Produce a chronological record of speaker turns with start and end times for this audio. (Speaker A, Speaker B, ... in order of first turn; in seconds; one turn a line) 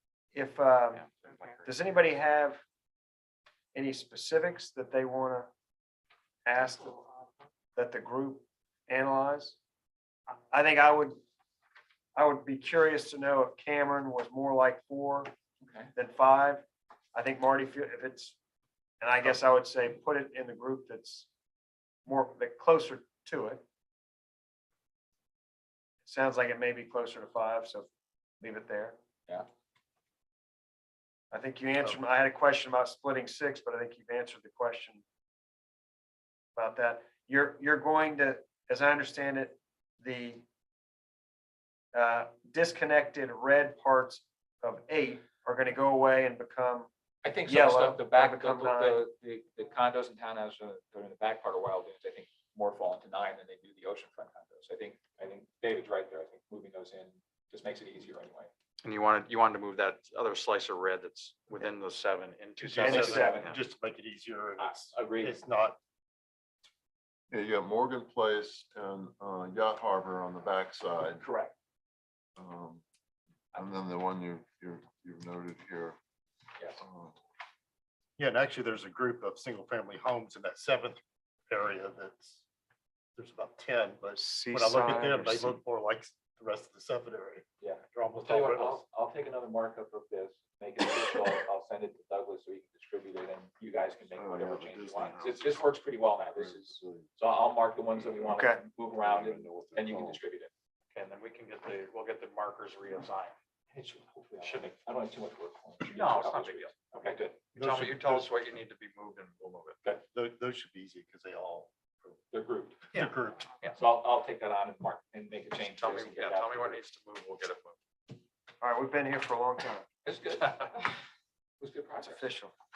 Speaker A: 0.3-1.0
Speaker B: 0.9-1.7
Speaker A: 1.6-2.6
Speaker A: 3.7-5.5
Speaker A: 6.4-7.0
Speaker A: 7.8-9.6
Speaker A: 10.3-11.2
Speaker A: 12.1-15.3
Speaker C: 15.6-15.9
Speaker A: 15.9-16.6
Speaker A: 17.1-18.4
Speaker A: 19.0-21.3
Speaker A: 22.1-23.6
Speaker A: 26.0-27.9
Speaker A: 28.4-28.9
Speaker A: 31.3-35.0
Speaker A: 36.5-40.4
Speaker A: 41.9-46.9
Speaker C: 47.2-58.5
Speaker A: 47.4-49.0
Speaker B: 58.8-63.6
Speaker D: 62.6-65.8
Speaker A: 62.8-63.4
Speaker C: 62.9-63.5
Speaker C: 64.6-65.4
Speaker E: 67.3-71.2
Speaker C: 71.2-71.5
Speaker E: 72.4-72.8
Speaker E: 73.5-76.0
Speaker C: 76.6-76.8
Speaker E: 76.8-77.2
Speaker D: 78.2-82.4
Speaker D: 83.2-88.8
Speaker A: 84.1-85.6
Speaker C: 87.6-100.5
Speaker E: 94.1-95.7
Speaker E: 96.3-97.0
Speaker A: 98.3-98.6
Speaker E: 99.0-100.2
Speaker B: 100.9-103.3
Speaker C: 103.7-107.4
Speaker B: 104.4-104.7
Speaker B: 105.9-106.8
Speaker B: 107.5-109.8
Speaker D: 107.5-108.3
Speaker D: 110.1-112.1
Speaker C: 112.3-112.8
Speaker D: 112.9-113.4
Speaker C: 113.7-116.8
Speaker B: 115.6-117.8
Speaker A: 118.6-119.8
Speaker C: 120.0-120.8
Speaker C: 121.6-122.2
Speaker A: 122.0-122.5